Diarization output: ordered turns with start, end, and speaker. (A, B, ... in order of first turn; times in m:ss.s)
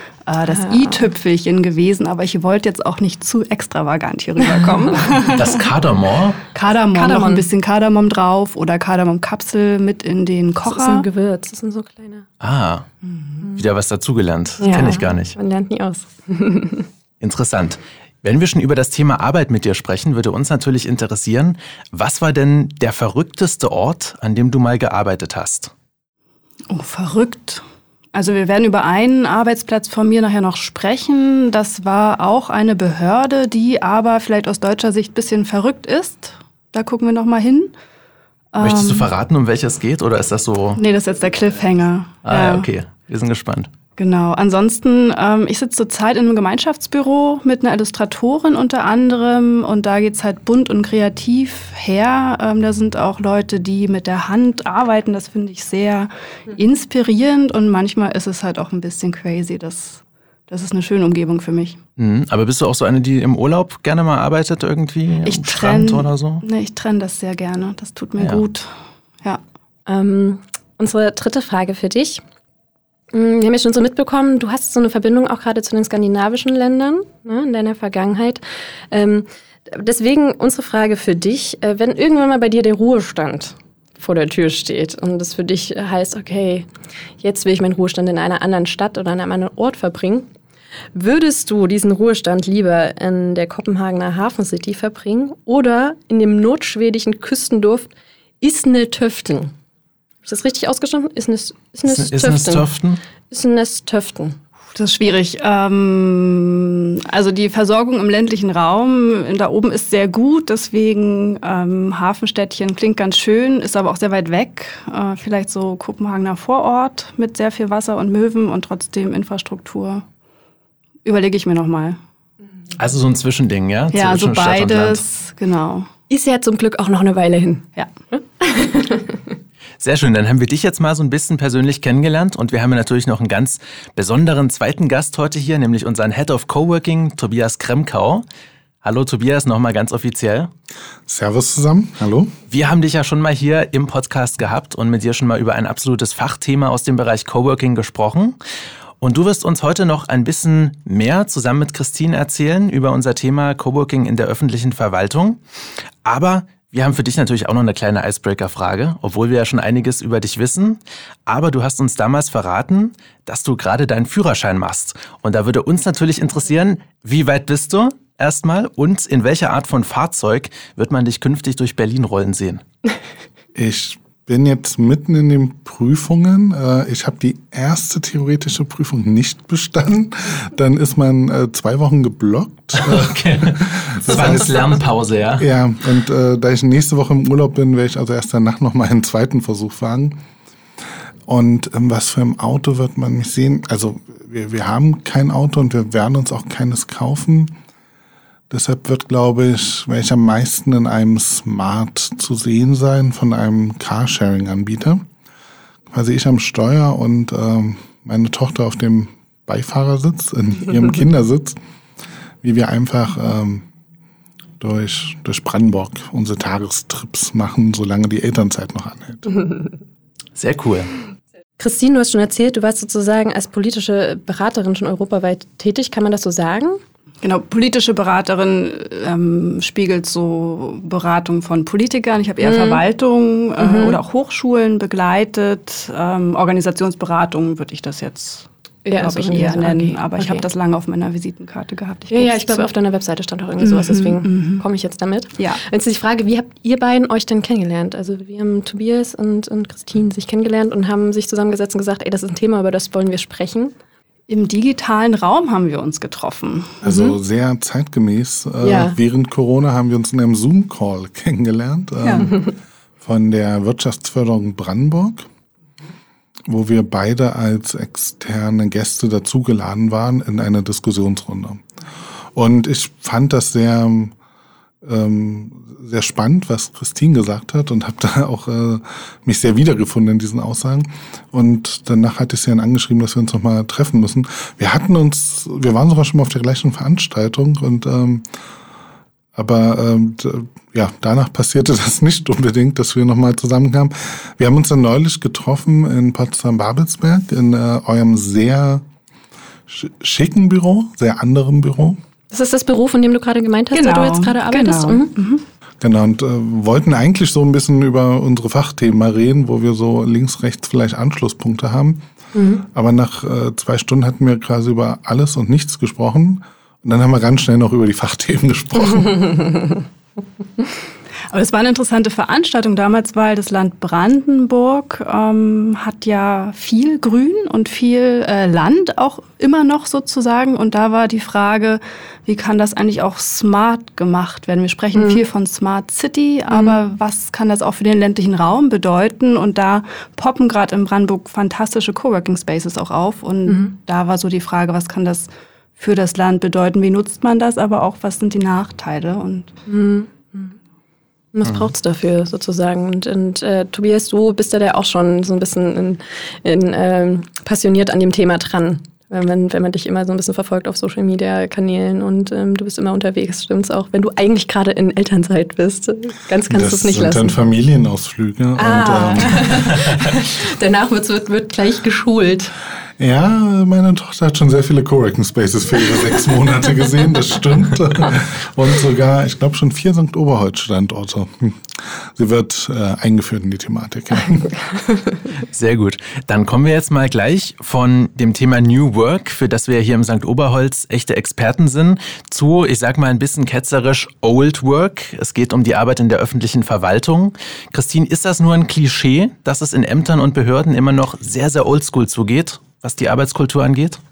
0:00.2-0:05.6 A
0:00.5-0:00.8 B
0:05.2-0:06.4 C
0:06.5-0:11.0 A
0:06.9-0:07.4 B
0:10.6-0:12.2 B
0:12.4-0:12.9 C
0:13.4-0:15.4 C
0:14.6-0:16.9 B
0:17.2-0:25.7 C
0:26.7-0:37.7 A
0:38.5-0:39.1 A
0:38.6-0:40.8 C
0:40.8-0:42.7 A
0:42.2-0:43.7 C
0:44.0-1:01.8 A
1:02.0-1:06.4 C
1:05.2-1:08.7 A
1:09.9-1:12.2 B
1:13.1-1:26.7 B
1:27.2-1:30.2 B
1:30.9-1:39.5 B
1:40.2-1:42.7 B
1:41.9-1:43.0 C
1:43.3-1:44.4 B
1:44.7-2:00.0 A
2:01.0-2:02.0 A
2:02.8-2:05.0 C
2:03.9-2:05.9 A
2:06.1-2:09.1 B
2:09.8-2:18.2 C
2:18.8-2:20.5 C
2:21.1-2:22.3 D
2:22.5-2:28.4 C
2:29.0-2:35.4 C
2:36.0-2:52.6 C
2:53.5-3:04.6 D
3:02.8-3:05.5 C
3:05.4-3:10.2 D
3:11.3-3:17.5 D
3:18.5-3:25.0 D
3:25.9-3:31.6 D
3:32.4-3:33.6 D
3:34.6-3:39.4 D
3:40.3-3:40.9 C
3:41.6-3:46.8 B
3:47.2-4:02.7 A
3:52.4-3:52.8 B
3:53.6-3:54.0 B
3:58.8-4:00.4 B
4:02.1-4:13.7 B
4:03.6-4:04.6 A
4:14.3-4:17.2 A
4:16.8-4:25.2 D
4:18.6-4:18.9 B
4:22.0-4:22.3 A
4:26.5-4:31.6 D
4:32.3-4:34.1 D
4:34.8-4:48.2 D
4:49.3-4:58.8 D
4:59.7-5:02.0 D
5:02.3-5:05.1 B
5:03.7-5:05.4 A
5:05.8-5:12.0 D
5:12.3-5:12.6 B
5:12.6-5:19.3 D
5:21.3-5:49.5 A
5:34.9-5:35.2 B
5:36.5-5:36.8 B
5:49.7-5:50.5 B
5:51.3-6:07.3 B
6:06.5-6:09.8 D
6:08.6-6:12.5 B
6:13.0-6:24.6 D
6:25.5-6:44.0 C